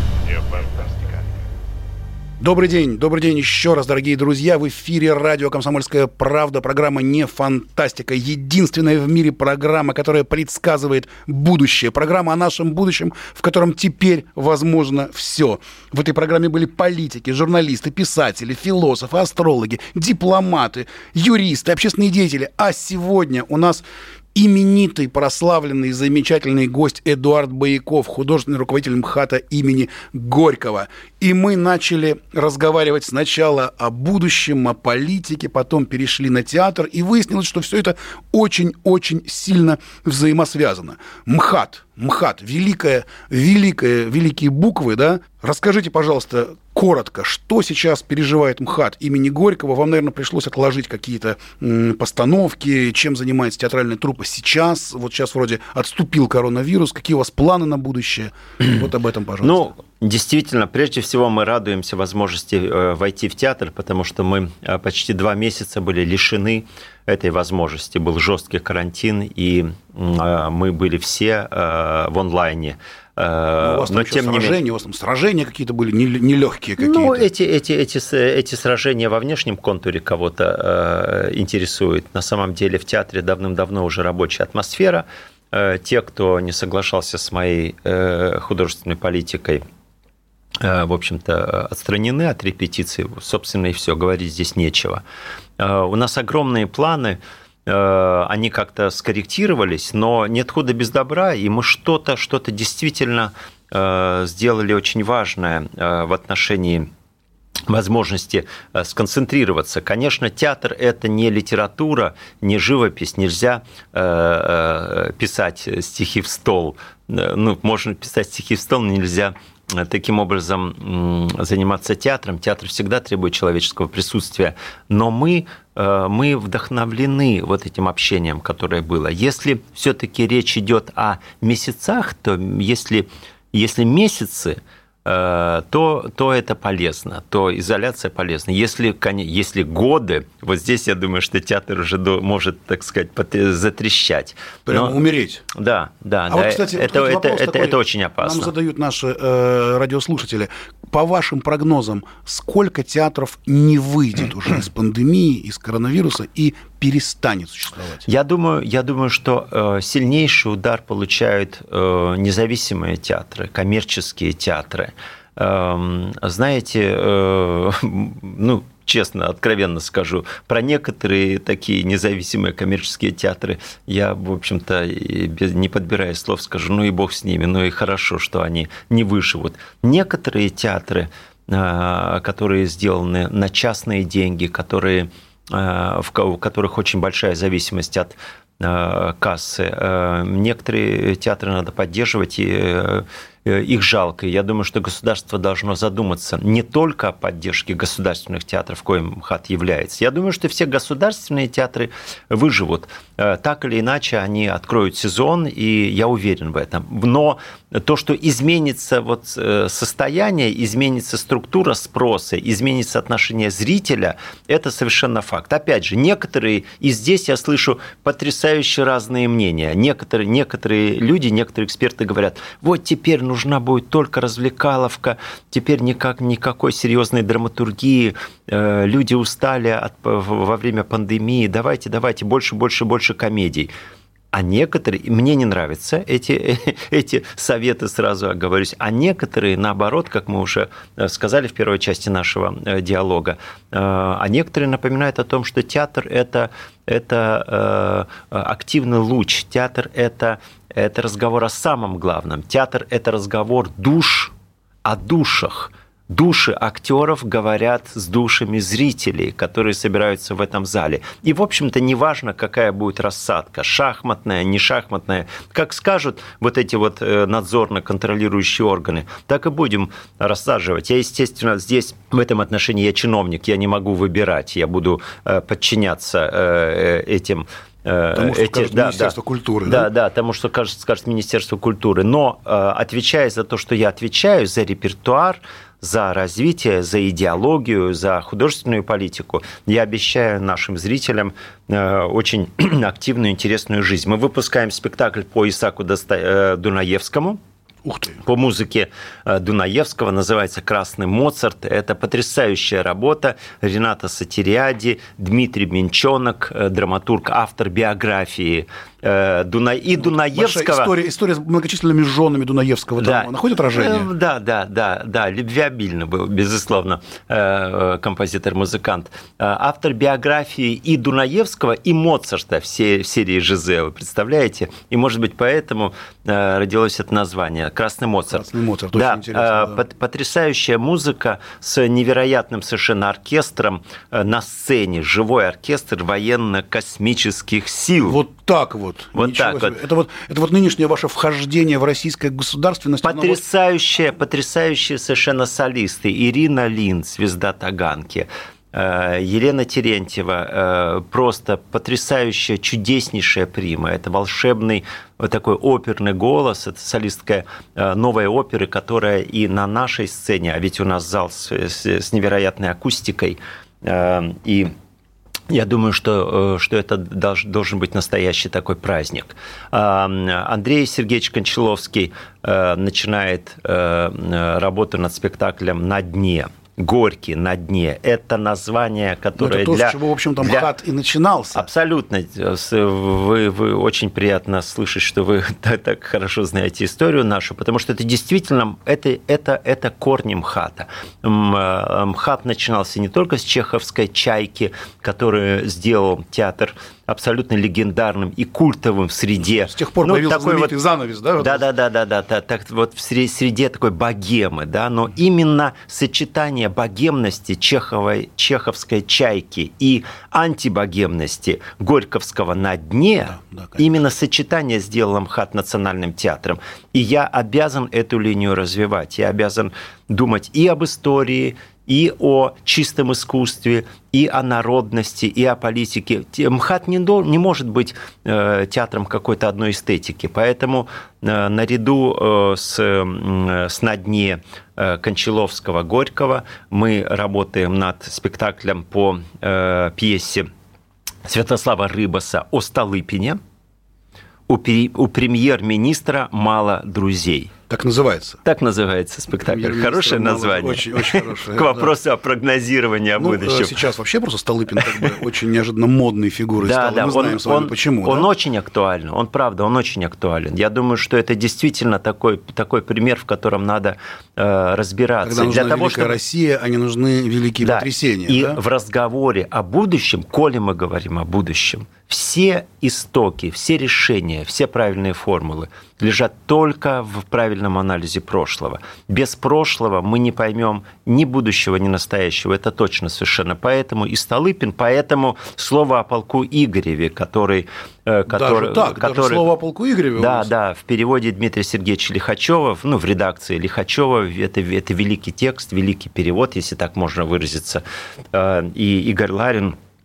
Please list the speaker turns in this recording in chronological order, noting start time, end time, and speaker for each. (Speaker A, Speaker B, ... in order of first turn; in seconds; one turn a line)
Speaker A: 2.4-59.7
Speaker B: 59.4-74.6
Speaker A: 73.6-77.3
Speaker B: 76.8-89.6
Speaker B: 90.6-95.0
Speaker B: 95.6-106.9
Speaker B: 107.7-145.0
Speaker A: 144.7-145.4
Speaker B: 145.5-148.5
Speaker A: 146.3-158.1
Speaker B: 158.1-233.7
Speaker B: 234.3-254.3
Speaker B: 254.8-297.4
Speaker A: 278.1-279.9
Speaker A: 297.9-298.2
Speaker B: 298.2-310.9
Speaker A: 310.0-314.1
Speaker B: 313.0-338.2
Speaker A: 328.3-329.8
Speaker A: 338.1-343.4
Speaker B: 339.1-339.8
Speaker B: 343.0-364.7
Speaker B: 365.5-380.7
Speaker A: 379.4-381.6
Speaker B: 381.5-400.7
Speaker A: 399.5-401.6
Speaker B: 401.4-440.5
Speaker A: 413.3-413.9
Speaker B: 441.2-443.4
Speaker B: 444.5-447.5
Speaker A: 447.7-448.4
Speaker B: 448.4-453.8
Speaker A: 449.4-451.9
Speaker A: 453.1-458.3
Speaker B: 456.6-466.2
Speaker A: 465.2-468.6
Speaker B: 467.6-489.4
Speaker A: 488.3-490.5
Speaker B: 490.2-499.8